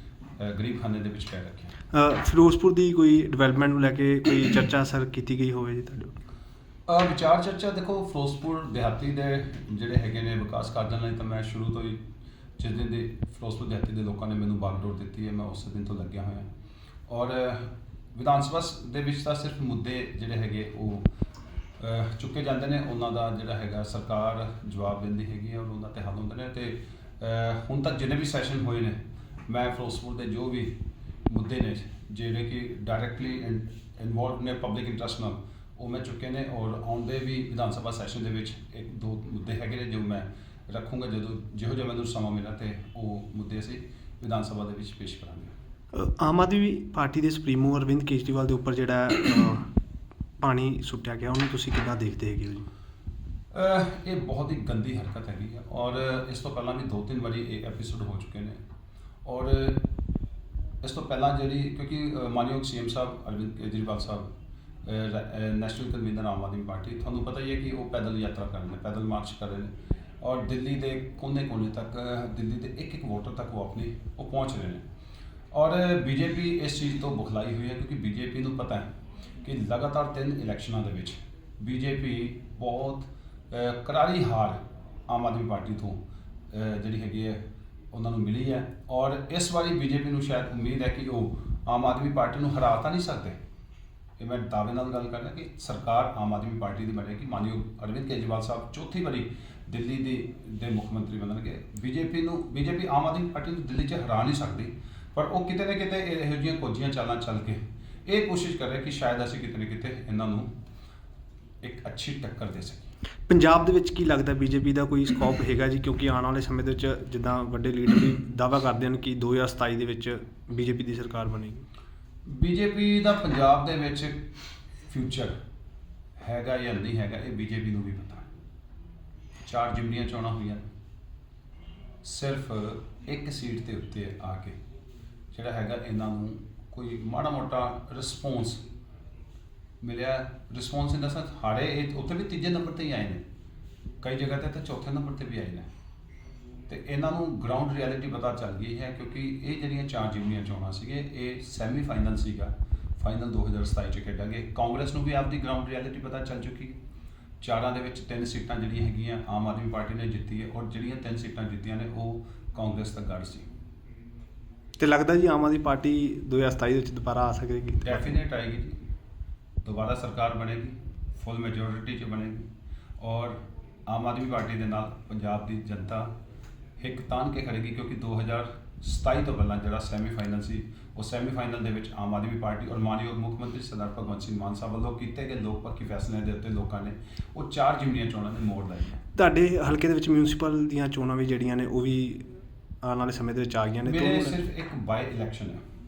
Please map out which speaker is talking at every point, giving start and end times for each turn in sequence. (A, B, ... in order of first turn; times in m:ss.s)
0:00.4-0:01.7 A
0:01.9-0:06.2 B
0:06.9-0:12.0 A
0:12.6-0:16.5 A
0:17.1-0:21.1 A
0:21.8-0:45.5 A
0:45.9-0:49.7 B
0:50.4-0:52.7 B
0:53.5-0:58.6 A
0:59.2-0:59.8 A
1:00.8-1:04.3 A
1:04.8-1:14.8 A
1:15.5-1:18.9 A
1:19.4-1:26.0 A
1:26.5-1:33.4 A
1:34.2-1:50.5 A
1:51.6-1:52.9 A
1:53.3-2:01.7 B
2:02.3-2:04.2 A
2:04.9-2:05.3 A
2:06.2-2:08.3 A
2:09.4-2:10.6 A
2:12.0-2:14.6 A
2:15.3-2:18.6 A
2:19.8-2:23.2 A
2:24.0-2:25.7 A
2:26.7-2:36.8 A
2:37.4-2:43.5 A
2:44.8-2:48.1 B
2:47.8-2:48.8 A
2:49.6-2:52.5 A
2:53.0-2:56.1 A
2:56.8-3:09.0 A
3:09.1-3:12.3 B
3:12.8-3:14.4 B
3:13.8-3:15.6 A